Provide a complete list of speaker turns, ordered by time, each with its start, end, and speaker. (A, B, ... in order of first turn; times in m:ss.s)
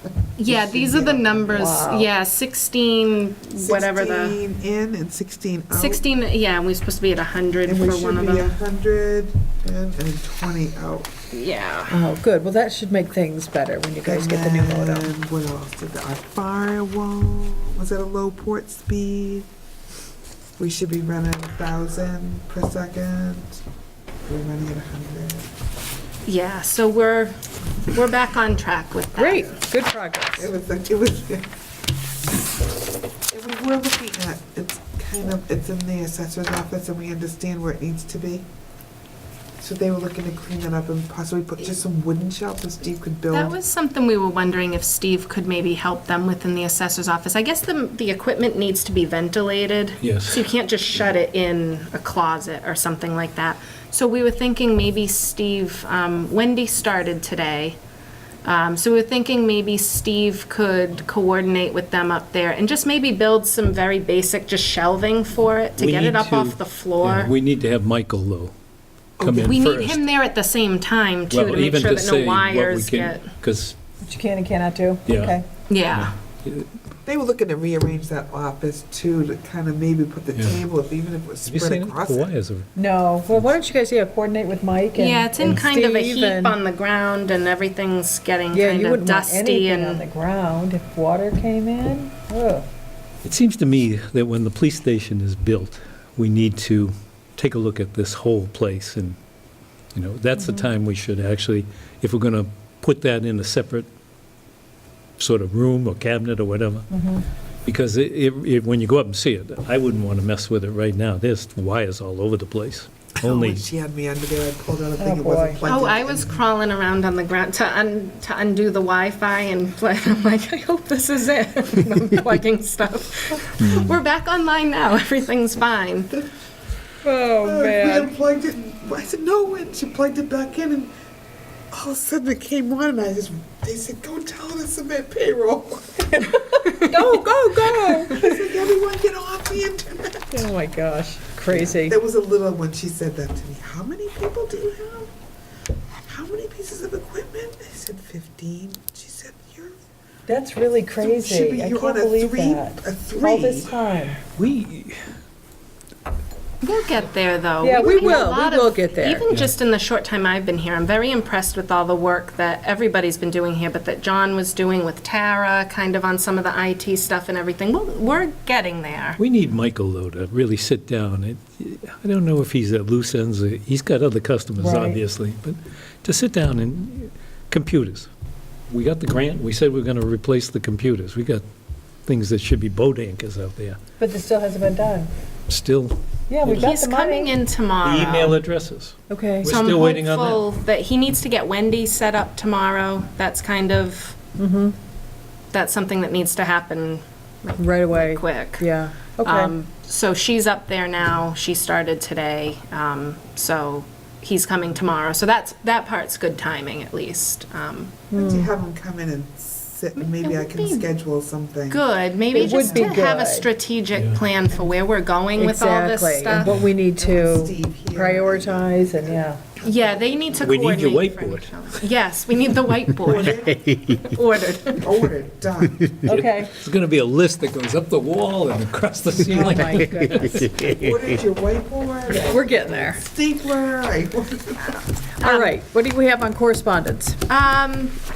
0:00.2-0:01.8 A
0:00.4-0:04.4 B
0:01.5-0:02.1 C
0:03.6-0:06.0 A
0:05.7-0:08.5 B
0:07.7-0:11.1 A
0:11.3-0:12.0 B
0:11.9-0:15.1 C
0:14.0-0:19.5 A
0:20.6-0:23.6 A
0:24.3-0:25.5 A
0:26.3-0:29.6 B
0:29.2-0:30.5 C
0:30.4-0:31.5 A
0:33.3-0:38.5 A
0:39.6-0:43.5 A
0:43.3-0:57.8 B
0:50.0-0:50.4 D
0:58.4-1:07.3 B
1:05.8-1:08.5 D
1:09.2-1:09.6 A
1:09.2-1:10.0 D
1:09.4-1:13.3 B
1:11.3-1:13.8 D
1:14.0-1:15.4 C
1:15.1-1:15.4 D
1:15.7-1:16.1 B
1:15.9-1:16.7 D
1:17.0-1:22.3 A
1:20.4-1:20.6 D
1:21.4-1:22.7 D
1:22.8-1:26.6 C
1:25.0-1:30.0 B
1:28.5-1:32.7 C
1:33.2-1:39.2 D
1:39.9-1:43.9 D
1:40.4-1:40.6 C
1:45.2-1:46.9 D
1:46.9-1:47.3 C
1:47.6-1:53.6 D
1:53.2-1:56.4 A
1:55.0-1:55.6 C
1:55.7-2:06.2 B
2:03.6-2:03.9 D
2:07.0-2:08.1 C
2:07.4-2:10.9 A
2:11.7-2:16.2 A
2:16.2-2:18.4 C
2:17.5-2:20.5 A
2:20.3-2:22.0 C
2:21.5-2:25.1 A
2:26.1-2:29.8 A
2:30.3-2:34.2 C
2:31.0-2:33.8 A
2:34.4-2:35.0 D
2:36.6-2:49.2 B
2:37.6-2:39.3 C
2:49.2-2:58.1 D
2:54.6-2:55.0 C
2:58.7-3:01.4 D
3:02.1-3:03.8 D
3:04.0-3:05.1 C
3:05.5-3:06.7 D
3:06.3-3:07.4 C
3:06.5-3:08.4 B
3:07.8-3:10.4 D
3:09.1-3:09.5 C
3:09.4-3:14.2 B
3:14.4-3:14.8 C
3:15.5-3:18.7 B
3:17.6-3:19.5 C
3:19.2-3:28.0 B
3:28.1-3:28.5 C
3:28.2-3:33.0 A
3:30.0-3:30.9 B
3:31.7-3:36.6 B
3:32.3-3:33.5 C
3:35.4-3:39.4 C
3:37.0-3:39.2 A
3:39.6-3:44.8 B
3:40.4-3:41.8 D
3:43.0-3:43.7 A
3:44.8-3:46.0 A
3:46.0-3:46.5 C
3:46.1-3:50.6 D
3:49.2-3:50.3 C
3:50.4-3:54.8 A
3:52.1-3:53.0 C
3:55.2-3:55.5 B
3:55.2-3:57.2 C
3:57.3-3:58.0 B